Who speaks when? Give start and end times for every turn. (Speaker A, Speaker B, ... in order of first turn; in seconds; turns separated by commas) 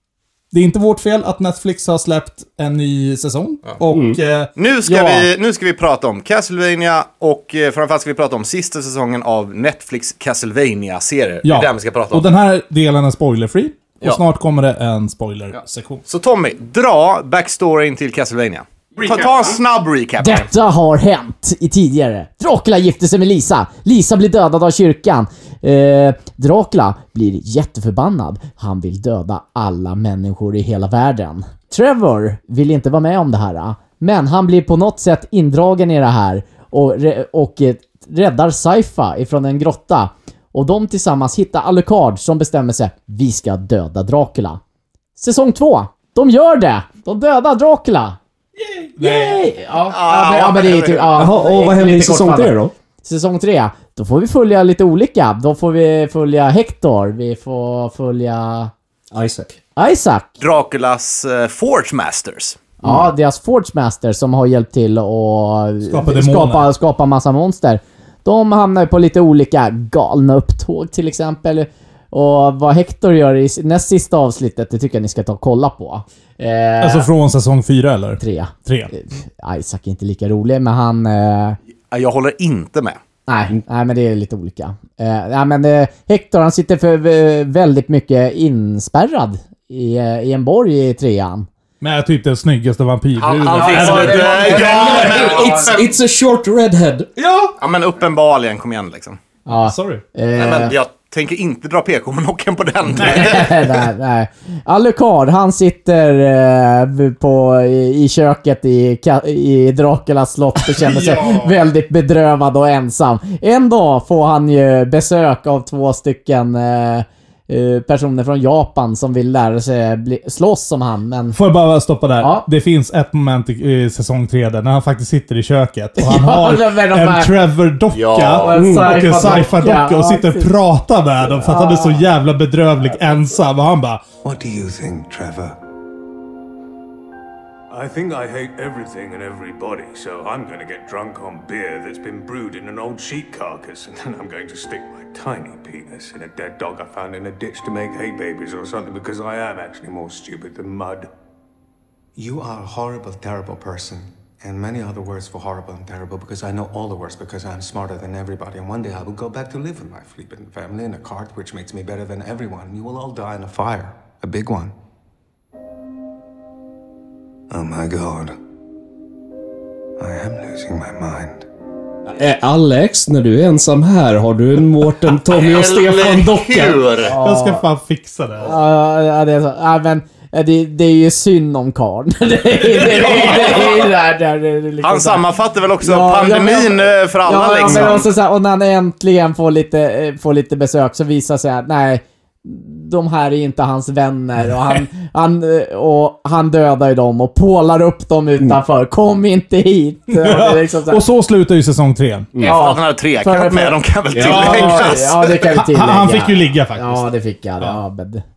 Speaker A: 0.5-5.3, Speaker B: 3.9-4.2, Speaker C: 4.6-12.3, Speaker A: 11.4-16.0, Speaker C: 16.1-20.5, Speaker D: 20.2-44.6, Speaker D: 45.2-48.2, Speaker A: 48.6-49.4, Speaker D: 49.0-58.7, Speaker C: 49.9-51.2, Speaker B: 51.1-52.7, Speaker B: 59.1-59.6, Speaker D: 59.8-60.4, Speaker C: 60.4-62.6, Speaker D: 62.8-77.1, Speaker A: 65.8-66.7, Speaker A: 76.8-78.9, Speaker D: 78.2-81.6, Speaker C: 81.9-83.0, Speaker D: 83.3-91.5, Speaker A: 91.8-95.3, Speaker C: 93.2-95.9, Speaker D: 93.5-95.7, Speaker B: 94.7-97.1, Speaker A: 97.2-97.5, Speaker C: 97.6-99.2, Speaker D: 99.5-100.7, Speaker A: 99.6-100.0, Speaker C: 100.3-103.5, Speaker D: 102.9-121.4, Speaker A: 103.0-103.5, Speaker A: 110.6-111.5, Speaker A: 121.3-134.0, Speaker D: 122.2-122.5, Speaker D: 126.0-127.4, Speaker C: 127.9-128.6, Speaker D: 128.4-130.5, Speaker B: 128.5-129.1, Speaker D: 131.2-132.1, Speaker E: 134.2-135.6, Speaker F: 137.7-151.1, Speaker E: 152.2-164.7, Speaker E: 167.5-168.3, Speaker E: 170.0-171.4, Speaker B: 172.1-176.8, Speaker C: 175.2-177.1, Speaker D: 177.0-177.6, Speaker A: 177.2-178.5, Speaker D: 178.4-185.2, Speaker C: 182.9-183.7, Speaker C: 184.8-188.1, Speaker D: 185.8-201.0, Speaker A: 200.1-202.3, Speaker B: 202.3-202.6, Speaker C: 202.4-205.5, Speaker D: 202.4-208.2, Speaker B: 204.1-204.5, Speaker A: 204.2-207.1